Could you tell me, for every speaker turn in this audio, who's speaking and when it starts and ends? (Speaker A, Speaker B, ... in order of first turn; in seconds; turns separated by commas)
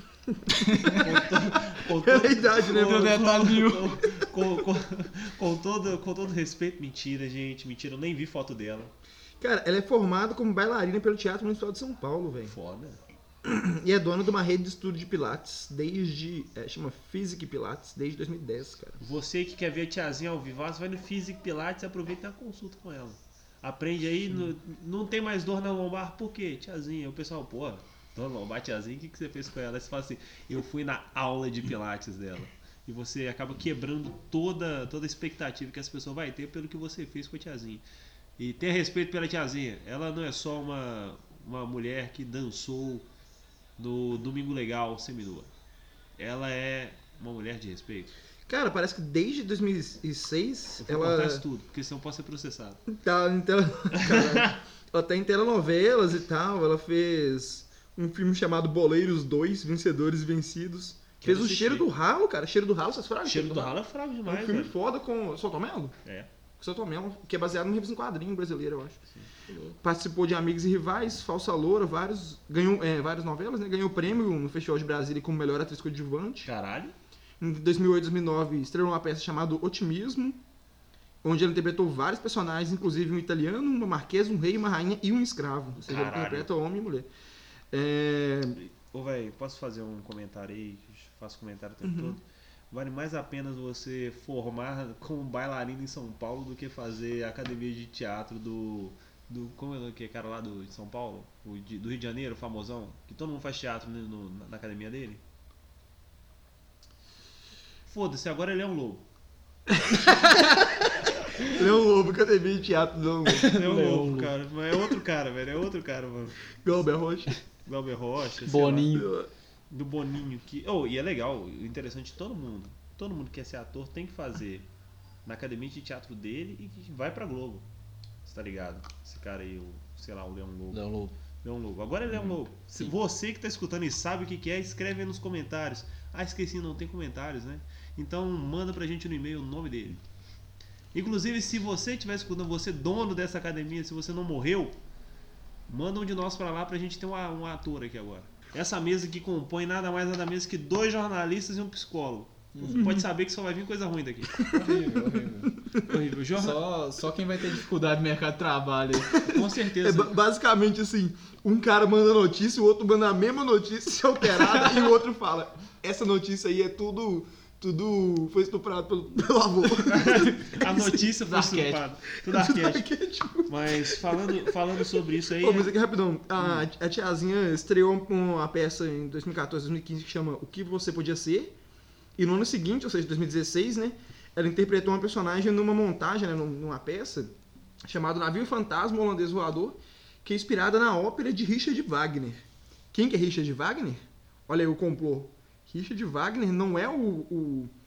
Speaker A: 0.3-1.3, Speaker B: 0.7-1.1, Speaker C: 0.9-8.9, Speaker A: 1.9-3.1, Speaker B: 2.7-4.0, Speaker A: 9.4-12.5, Speaker C: 12.4-13.0, Speaker A: 13.4-19.0, Speaker C: 19.0-37.8, Speaker C: 38.4-43.1, Speaker C: 43.8-45.5, Speaker C: 46.2-48.1, Speaker A: 48.5-51.4, Speaker C: 50.8-52.8, Speaker A: 52.9-63.8, Speaker C: 54.0-54.5, Speaker C: 61.2-61.9, Speaker C: 63.2-64.8, Speaker A: 64.3-65.9, Speaker C: 66.0-66.3, Speaker A: 66.6-69.0, Speaker A: 69.8-76.5, Speaker C: 76.4-77.0, Speaker A: 77.4-80.4, Speaker A: 81.2-87.1, Speaker C: 85.8-86.5, Speaker A: 87.7-88.6, Speaker C: 88.6-105.2, Speaker A: 91.8-92.2, Speaker C: 107.9-109.0, Speaker A: 109.9-110.8, Speaker A: 111.5-113.5, Speaker B: 113.4-114.3, Speaker C: 113.4-116.5, Speaker A: 116.6-117.3, Speaker C: 117.6-118.9, Speaker B: 118.5-119.1, Speaker A: 118.9-119.3, Speaker C: 119.7-124.7, Speaker C: 125.2-127.7, Speaker C: 128.3-130.8, Speaker B: 130.7-131.2, Speaker C: 131.4-140.0, Speaker B: 132.1-132.9, Speaker C: 140.9-144.8, Speaker C: 145.7-154.4, Speaker B: 152.6-153.0, Speaker A: 152.6-153.0, Speaker A: 154.4-155.8, Speaker B: 154.5-155.6, Speaker C: 155.9-156.7, Speaker B: 156.3-159.3, Speaker C: 159.3-160.2, Speaker A: 159.8-170.5, Speaker B: 164.4-164.8, Speaker C: 169.9-172.9, Speaker B: 170.1-171.8, Speaker A: 172.2-181.5, Speaker C: 173.5-175.7, Speaker A: 182.2-187.3, Speaker A: 187.9-192.4, Speaker A: 192.9-197.7